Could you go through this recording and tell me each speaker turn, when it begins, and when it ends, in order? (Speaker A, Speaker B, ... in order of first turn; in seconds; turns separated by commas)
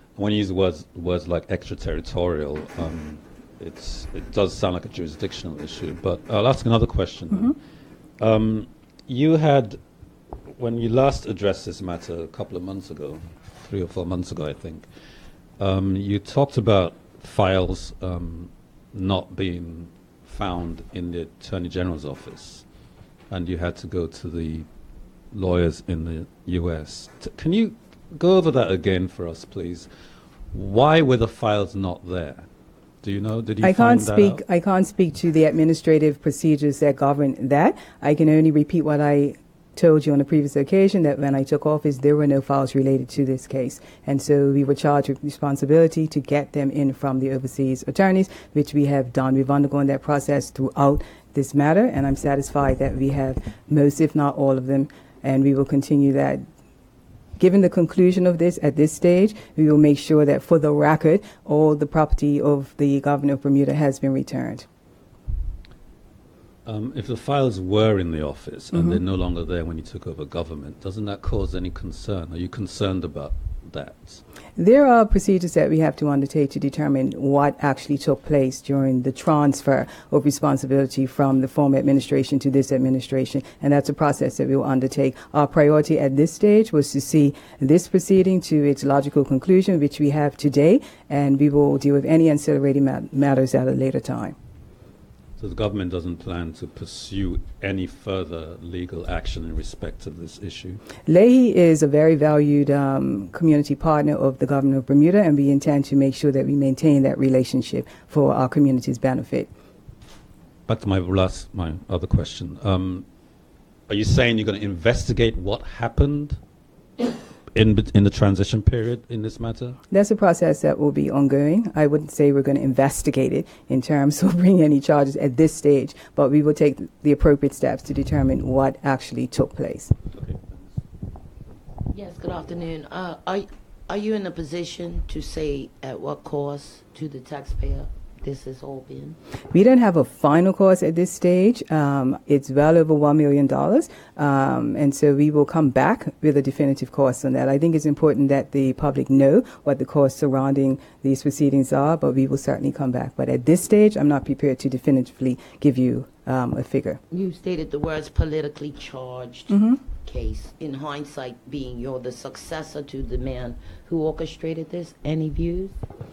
Speaker A: 0.2-7.6, Speaker A: 8.2-9.8, Speaker A: 10.6-14.9, Speaker A: 15.6-22.6, Speaker A: 23.3-24.7, Speaker A: 25.3-29.9, Speaker A: 30.5-32.5, Speaker A: 33.0-34.4, Speaker B: 33.6-56.4, Speaker B: 57.4-64.7, Speaker A: 66.7-74.2, Speaker B: 68.7-69.0, Speaker B: 74.6-94.3, Speaker A: 95.4-100.8, Speaker B: 101.1-109.5, Speaker A: 110.7-113.0, Speaker A: 113.9-116.4, Speaker A: 117.5-119.8, Speaker B: 119.9-129.9, Speaker A: 130.1-130.8, Speaker C: 131.9-139.2, Speaker B: 139.5-157.0, Speaker C: 157.1-165.8, Speaker B: 159.5-159.8